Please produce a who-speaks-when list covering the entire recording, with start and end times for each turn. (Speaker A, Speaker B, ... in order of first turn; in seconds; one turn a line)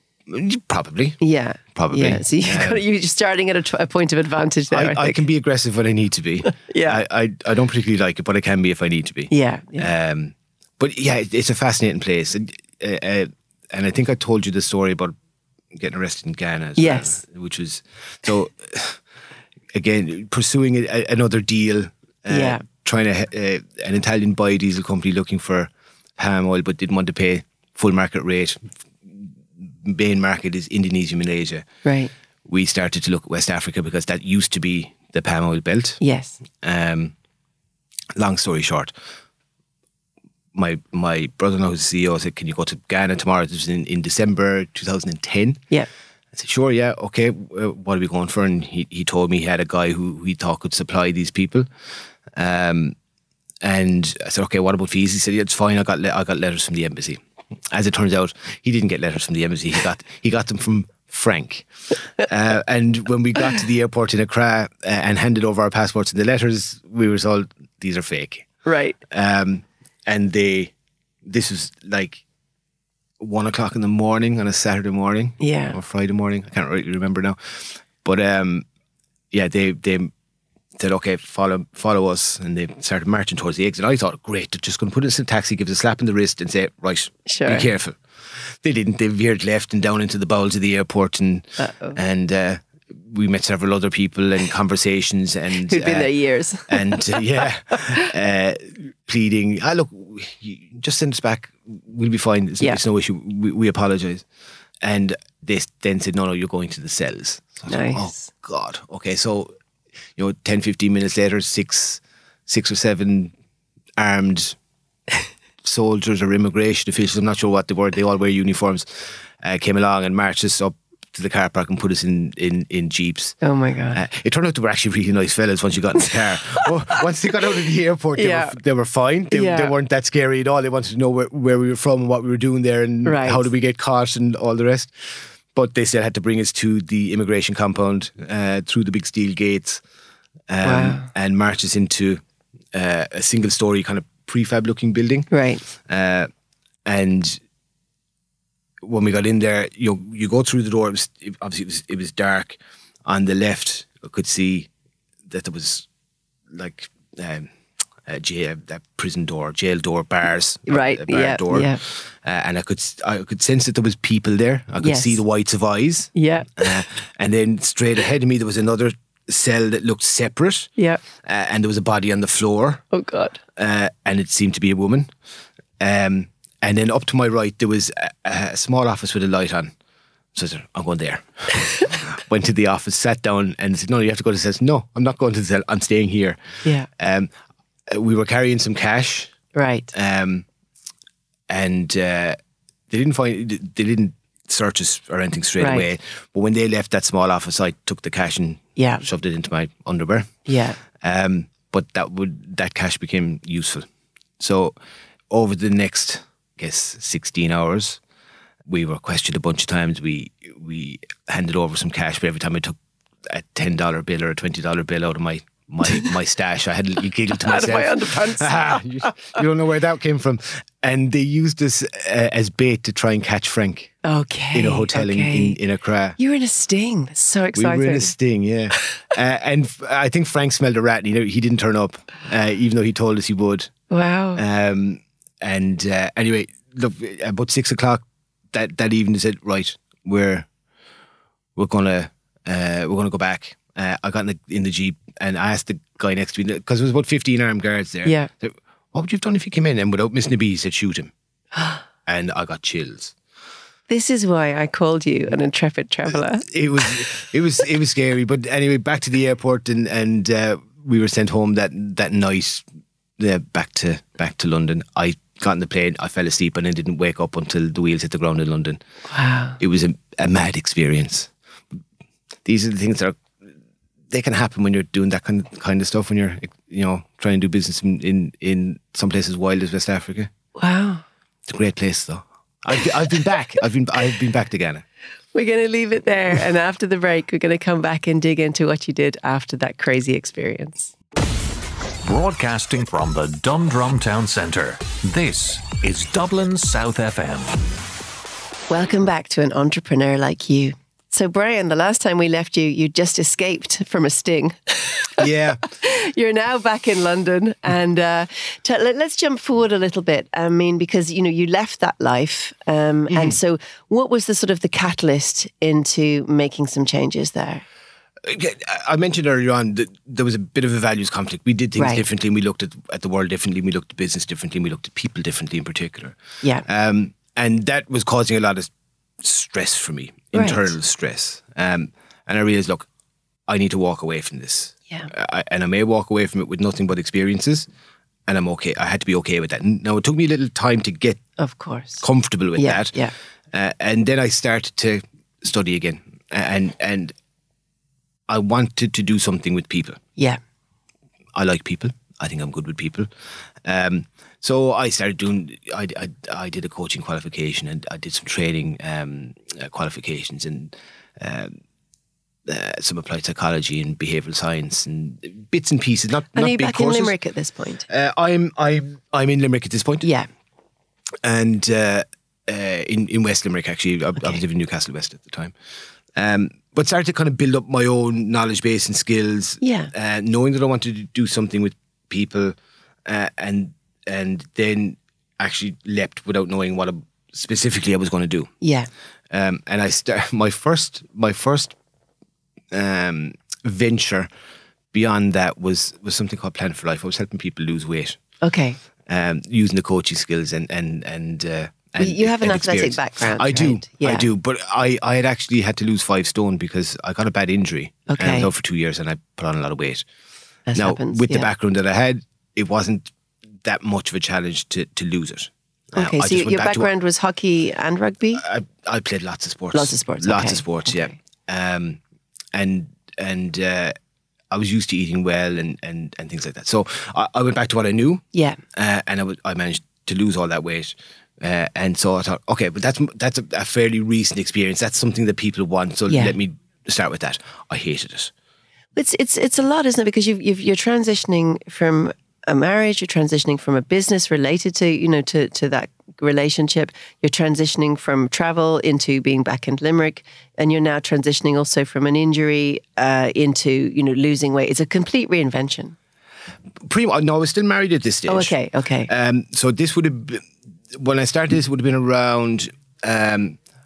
Speaker A: 0.3-1.2
Speaker B: 1.2-5.2
Speaker A: 1.7-2.8
Speaker A: 4.7-15.1
Speaker B: 6.5-7.0
Speaker B: 9.3-9.9
Speaker A: 15.7-19.0
Speaker B: 16.8-17.2
Speaker A: 19.7-31.7
Speaker B: 22.3-22.6
Speaker B: 31.9-32.1
Speaker A: 32.5-36.0
Speaker B: 36.0-36.4
Speaker A: 36.5-37.1
Speaker A: 38.1-38.9
Speaker A: 40.5-45.6
Speaker A: 46.3-51.7
Speaker A: 52.3-53.0
Speaker A: 53.6-68.5
Speaker B: 68.7-69.0
Speaker A: 69.1-70.7
Speaker A: 71.2-72.2
Speaker A: 73.2-78.7
Speaker B: 75.4-75.8
Speaker A: 79.3-80.1
Speaker A: 80.8-96.1
Speaker B: 87.3-87.7
Speaker B: 91.6-92.0
Speaker B: 95.7-97.2
Speaker A: 96.7-104.2
Speaker B: 97.7-98.1
Speaker A: 104.8-109.5
Speaker B: 107.7-108.3
Speaker A: 110.2-113.3
Speaker A: 114.0-114.6
Speaker A: 115.6-123.4
Speaker B: 123.4-124.0
Speaker A: 123.9-139.8
Speaker B: 128.2-128.6
Speaker B: 129.3-129.7
Speaker B: 133.0-133.5
Speaker A: 140.5-142.2
Speaker B: 140.6-141.1
Speaker A: 142.7-146.3
Speaker B: 145.3-145.7
Speaker A: 146.8-147.4
Speaker A: 148.8-154.7
Speaker A: 155.3-155.9
Speaker A: 156.5-157.5
Speaker A: 158.1-170.7
Speaker B: 160.7-161.8
Speaker B: 164.8-165.2
Speaker B: 166.2-166.7
Speaker B: 170.8-171.0
Speaker A: 171.2-172.8
Speaker B: 172.9-173.4
Speaker A: 173.6-175.1
Speaker A: 175.8-179.7
Speaker A: 180.3-186.4
Speaker A: 187.0-187.3
Speaker A: 187.9-189.3
Speaker B: 189.5-189.9
Speaker A: 189.9-190.4
Speaker A: 191.5-192.4
Speaker A: 192.9-203.9
Speaker B: 195.6-195.9
Speaker B: 198.8-199.0
Speaker B: 200.5-200.8
Speaker A: 204.4-204.8
Speaker A: 205.3-208.0
Speaker A: 208.7-223.9
Speaker B: 217.3-219.3
Speaker B: 224.0-225.6
Speaker A: 224.5-226.2
Speaker B: 226.2-228.1
Speaker A: 227.6-233.7
Speaker B: 233.9-234.4
Speaker A: 234.4-240.5
Speaker A: 241.6-251.1
Speaker A: 252.1-253.1
Speaker B: 253.9-256.5
Speaker A: 256.4-262.6
Speaker A: 263.2-268.8
Speaker B: 269.1-269.6
Speaker A: 269.6-271.3
Speaker A: 272.4-273.2
Speaker A: 274.1-280.3
Speaker B: 280.6-281.0
Speaker A: 281.5-284.8
Speaker B: 285.3-290.9
Speaker C: 292.0-297.7
Speaker B: 298.7-317.6
Speaker A: 305.2-305.6
Speaker A: 313.1-313.4
Speaker A: 318.2-332.9
Speaker B: 321.8-322.0
Speaker B: 330.3-330.7
Speaker A: 333.5-337.7
Speaker A: 338.3-341.2
Speaker B: 341.4-342.1
Speaker A: 342.0-342.9
Speaker B: 342.6-343.1
Speaker A: 343.5-347.1
Speaker A: 348.3-350.0
Speaker A: 351.3-353.1
Speaker A: 353.6-361.6
Speaker A: 362.5-367.1
Speaker B: 366.3-367.9
Speaker A: 367.9-370.1
Speaker A: 371.2-375.5
Speaker A: 376.1-388.5
Speaker B: 379.6-379.9
Speaker B: 388.6-388.9
Speaker A: 389.3-391.8
Speaker A: 392.7-394.3
Speaker A: 394.9-398.2
Speaker B: 398.4-398.8
Speaker A: 399.1-410.1
Speaker B: 402.0-404.3
Speaker B: 408.1-408.5
Speaker B: 410.7-411.5
Speaker A: 410.8-413.1
Speaker A: 413.6-416.9
Speaker B: 415.9-418.4
Speaker A: 418.4-422.0
Speaker B: 419.7-421.1
Speaker A: 422.5-423.9
Speaker A: 424.5-438.3
Speaker B: 428.3-428.6
Speaker B: 436.1-436.4
Speaker B: 438.9-456.0
Speaker A: 456.8-458.5
Speaker B: 458.3-459.1
Speaker A: 459.1-463.6